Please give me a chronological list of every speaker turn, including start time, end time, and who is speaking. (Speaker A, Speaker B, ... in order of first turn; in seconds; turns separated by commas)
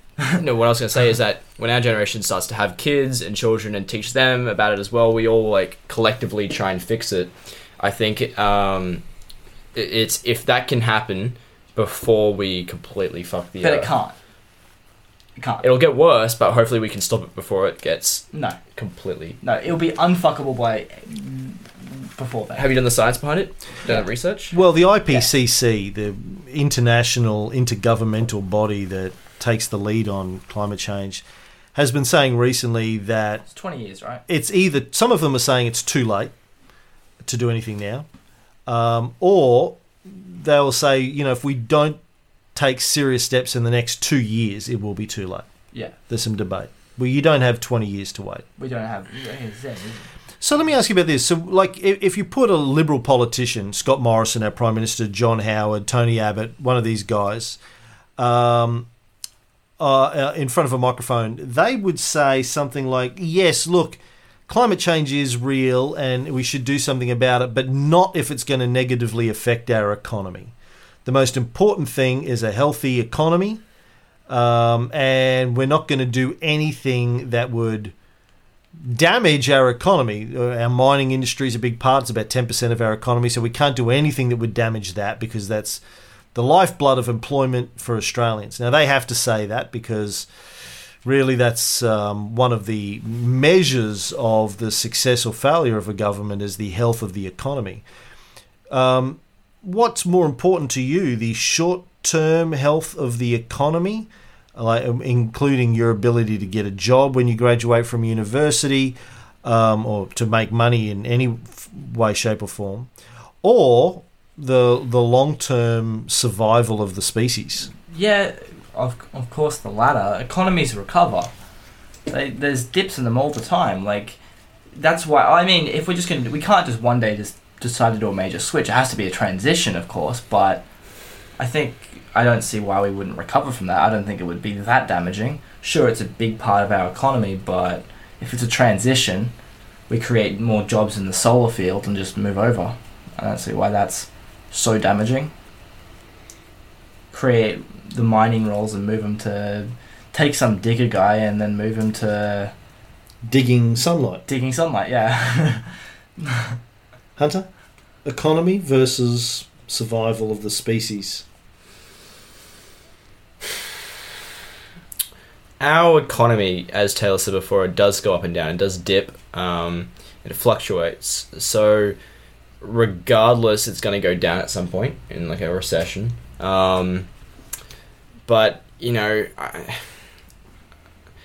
Speaker A: 0.4-9.0, Speaker A: 9.7-13.9, Speaker B: 13.6-14.2, Speaker B: 15.4-15.7, Speaker A: 15.6-19.4, Speaker B: 18.3-18.6, Speaker B: 19.4-22.7, Speaker A: 22.6-24.6, Speaker C: 24.5-31.2, Speaker C: 31.8-33.4, Speaker B: 33.5-34.2, Speaker C: 34.3-36.3, Speaker C: 37.2-38.1, Speaker C: 38.7-42.0, Speaker C: 42.5-45.5, Speaker C: 46.1-48.5, Speaker B: 48.6-50.1, Speaker C: 50.4-57.6, Speaker C: 58.2-58.9, Speaker C: 59.8-70.5, Speaker C: 71.0-73.6, Speaker C: 74.3-77.9, Speaker C: 78.8-85.8, Speaker C: 86.3-90.3, Speaker C: 91.0-97.8, Speaker C: 98.7-112.9, Speaker C: 113.4-117.7, Speaker B: 117.9-121.3, Speaker B: 122.1-124.2, Speaker B: 124.8-130.7, Speaker B: 131.4-139.3, Speaker B: 139.9-145.3, Speaker B: 147.1-152.5, Speaker C: 153.2-154.2, Speaker B: 154.3-156.6, Speaker C: 157.2-157.5, Speaker C: 158.1-161.2, Speaker A: 165.6-172.0, Speaker A: 172.6-177.1, Speaker A: 178.3-179.9